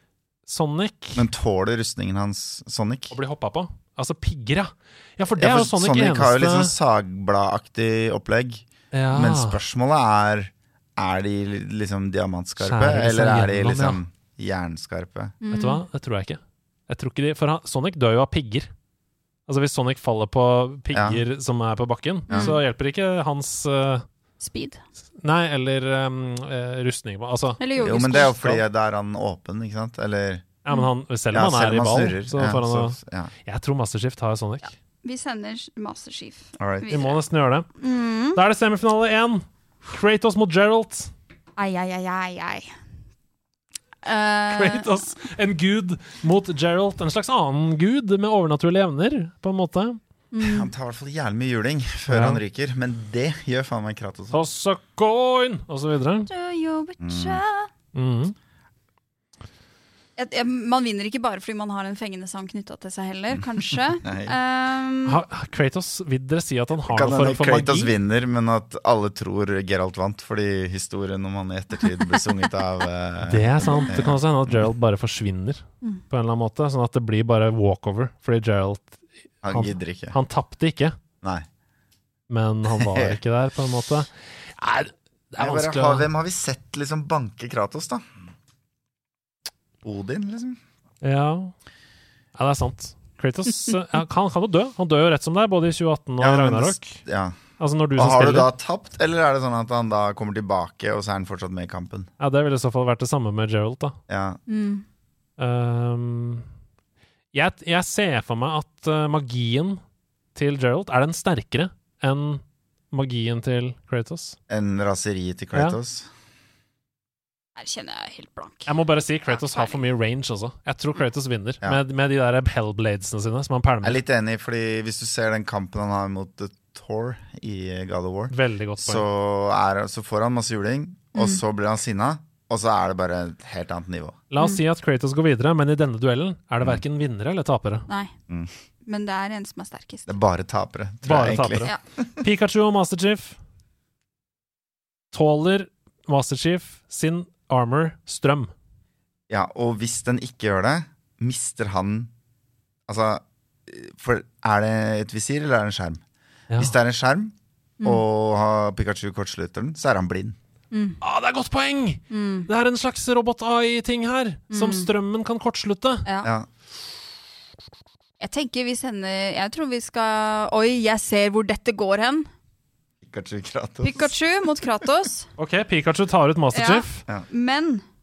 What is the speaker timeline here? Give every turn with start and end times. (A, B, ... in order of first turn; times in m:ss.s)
0:00.5-0:01.3 A
0:01.2-0:03.1 B
0:03.1-0:06.7 A
0:05.4-0:15.4 B
0:08.9-0:09.6 A
0:12.6-0:14.0 A
0:15.4-0:15.8 C
0:15.5-0:18.7 A
0:19.5-0:24.0 A
0:20.9-0:21.2 B
0:22.3-0:22.5 B
0:22.3-0:22.6 C
0:24.4-0:24.8 C
0:25.2-0:28.6 A
0:27.6-0:28.3 C
0:27.8-0:30.4 B
0:30.6-0:34.7 A
0:31.3-0:33.3 B
0:35.0-0:37.2 C
0:36.6-0:36.9 B
0:36.9-0:37.7 A
0:37.8-0:38.4 C
0:38.3-0:41.1 A
0:41.6-0:42.7 C
0:44.0-0:44.9 C
0:44.5-0:50.0 A
0:50.3-0:50.7 C
0:50.4-0:54.4 B
0:52.1-0:52.4 A
0:54.3-0:56.3 A
0:56.3-0:57.7 C
0:57.0-0:57.4 B
0:57.9-0:58.4 A
1:00.2-1:05.2 C
1:04.0-1:04.3 B
1:05.1-1:07.9 A
1:06.9-1:14.6 B
1:13.2-1:21.0 A
1:19.4-1:20.2 B
1:22.3-1:26.1 A
1:22.8-1:23.2 B
1:25.4-1:28.0 B
1:29.8-1:30.6 B
1:31.0-1:31.5 A
1:32.4-1:37.0 A
1:36.2-1:37.4 B
1:37.6-1:38.5 A
1:38.0-1:42.1 B
1:42.2-1:44.0 A
1:44.1-1:44.4 B
1:44.5-1:44.8 C
1:45.4-1:46.4 A
1:47.3-1:49.8 A
1:50.4-1:54.4 A
1:54.5-1:56.1 B
1:57.6-1:58.7 C
1:58.7-2:04.0 A
1:59.3-1:59.8 C
2:03.8-2:14.2 B
2:08.3-2:09.1 A
2:11.1-2:11.4 C
2:14.3-2:17.8 A
2:17.9-2:18.1 C
2:18.8-2:20.1 C
2:20.1-2:21.7 B
2:21.0-2:23.4 A
2:25.1-2:28.5 A
2:29.3-2:32.1 B
2:32.9-2:36.0 B
2:36.6-2:40.4 B
2:40.7-2:41.0 C
2:41.0-2:46.0 A
2:42.1-2:42.5 C
2:44.5-2:44.9 C
2:46.0-2:46.3 C
2:48.2-2:52.3 C
2:53.0-2:54.2 B
2:53.8-2:55.3 C
2:55.4-2:57.0 A
2:56.6-2:57.8 C